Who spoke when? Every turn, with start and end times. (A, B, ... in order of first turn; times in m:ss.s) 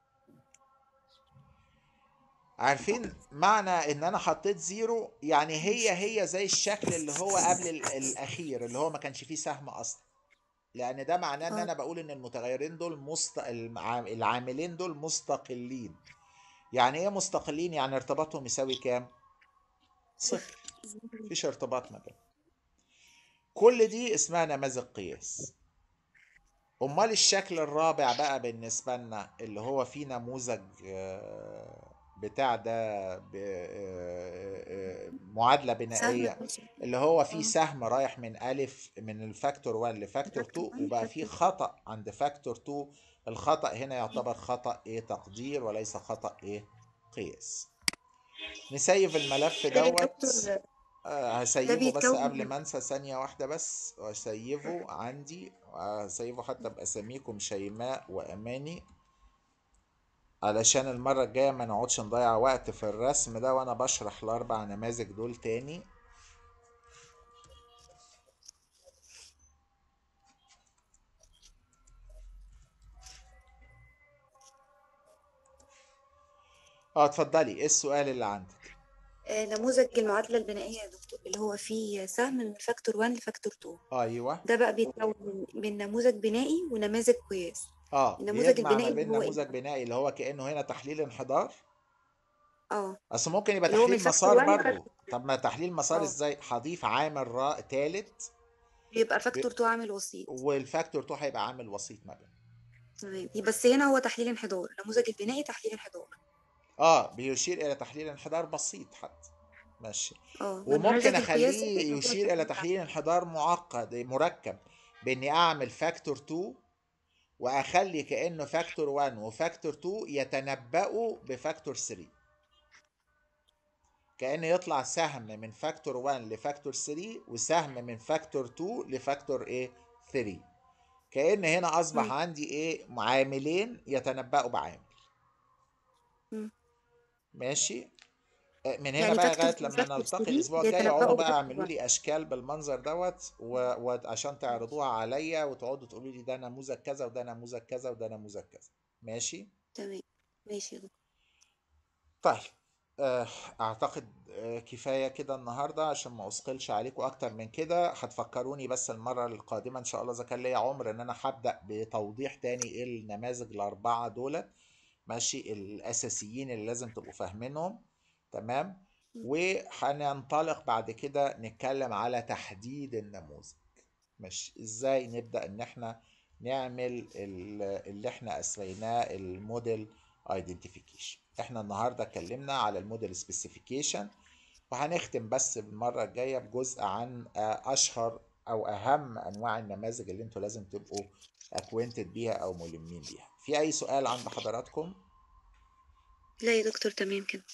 0:02.6-0:10.0 A
0:10.8-0:16.0 A
0:16.7-0:19.1 A
0:20.2-0:20.6 A
0:21.3-0:22.2 A
0:23.6-0:25.5 A
0:26.8-0:47.7 A
0:36.0-0:36.6 B
0:40.3-0:41.3 B
0:48.7-0:50.4 A
0:49.7-0:50.6 B
0:51.0-0:58.8 A
0:51.6-0:52.5 B
1:00.4-1:05.9 A
1:17.0-1:18.6 A
1:19.3-1:23.8 B
1:23.9-1:24.4 A
1:24.4-1:27.7 B
1:27.9-1:31.6 A
1:28.2-1:29.4 B
1:33.1-1:38.3 A
1:33.7-1:34.8 B
1:38.9-1:40.3 B
1:40.3-1:42.3 A
1:43.0-1:46.2 B
1:46.8-1:49.3 A
1:49.8-1:56.6 A
1:50.4-1:52.7 B
1:57.4-2:02.1 A
2:04.2-2:10.4 A
2:11.1-2:14.9 A
2:17.4-2:17.9 A
2:18.7-2:29.5 A
2:19.0-2:21.7 B
2:29.8-2:30.9 B
2:32.2-2:44.5 A
2:45.1-2:53.6 A
2:54.2-3:04.1 A
3:04.7-3:15.0 A
3:16.4-3:17.4 B